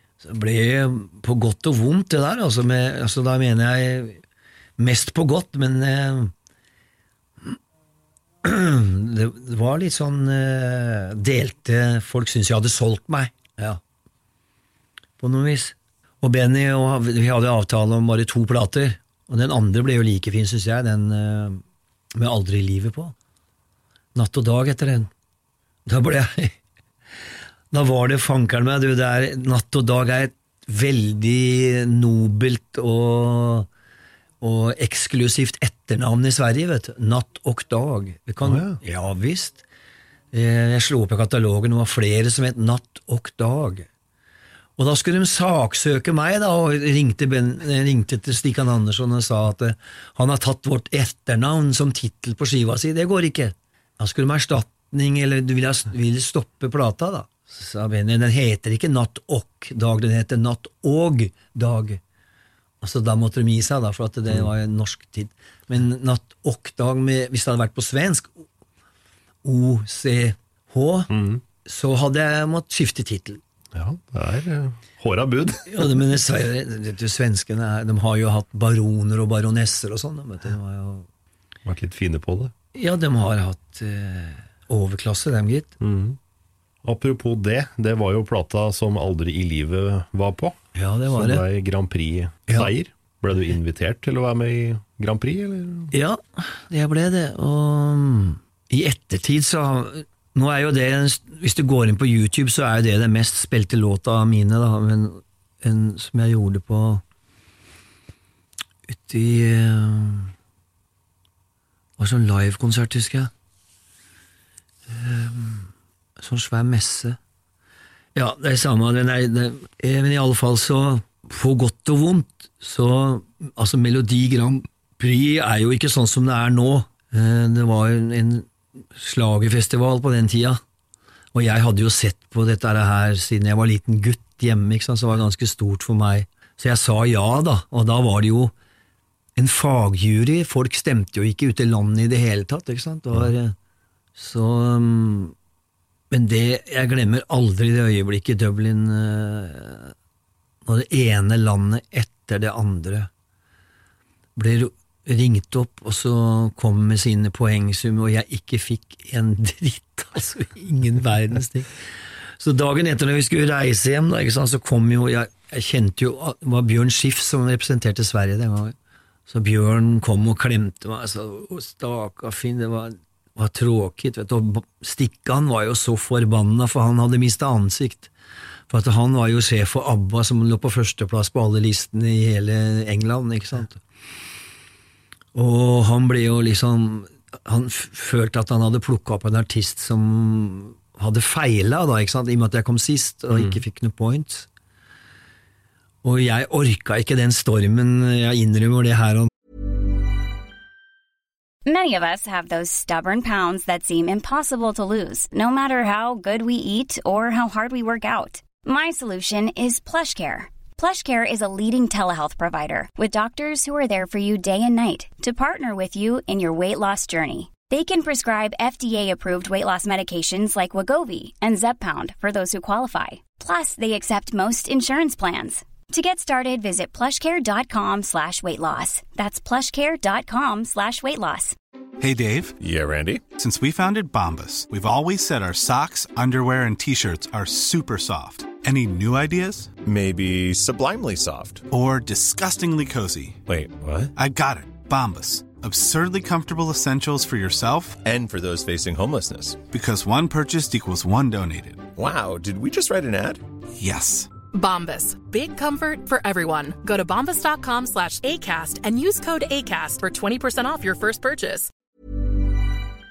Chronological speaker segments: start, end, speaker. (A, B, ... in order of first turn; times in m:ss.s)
0:00.2-0:04.2 A
0:04.8-0:06.3 A
0:08.4-0:13.8 A
0:15.2-0:21.6 A
0:22.2-0:23.1 A
0:24.1-0:25.1 A
0:25.8-0:26.5 A
0:27.7-0:33.7 A
0:34.4-0:39.6 A
0:38.4-0:38.8 B
0:40.3-0:43.9 A
0:44.8-1:02.0 A
1:02.8-1:08.4 A
1:09.4-1:11.1 A
1:11.1-1:11.4 B
1:11.6-1:13.4 A
1:13.7-1:16.0 B
1:15.7-1:21.1 A
1:21.6-1:22.5 B
1:22.7-1:25.7 A
1:25.8-1:26.2 B
1:26.8-1:30.6 B
1:30.7-1:31.4 A
1:31.1-1:35.9 B
1:32.5-1:32.7 A
1:35.9-1:47.0 A
1:48.9-1:50.3 A
1:52.0-1:53.3 A
1:54.9-1:57.2 A
1:58.1-2:10.6 A
2:11.3-2:18.5 A
2:19.4-2:23.5 A
2:24.2-2:25.3 A
2:26.1-2:29.9 A
2:30.6-2:33.1 A
2:34.4-2:41.7 A
2:42.4-2:48.7 A
2:49.3-2:58.1 A
2:58.7-3:03.8 A
3:05.3-3:14.5 A
3:13.3-3:13.6 B
3:16.0-3:19.3 A
3:21.6-3:51.6 C
3:52.0-3:52.5 D
3:52.6-3:53.3 E
3:53.3-3:59.7 D
3:59.8-4:01.6 E
4:01.7-4:03.4 D
4:03.4-4:04.1 E
4:04.1-4:08.0 D
4:08.0-4:09.6 E
4:09.7-4:11.9 D
4:11.9-4:13.4 E
4:13.8-4:14.3 D
4:14.5-4:21.7 F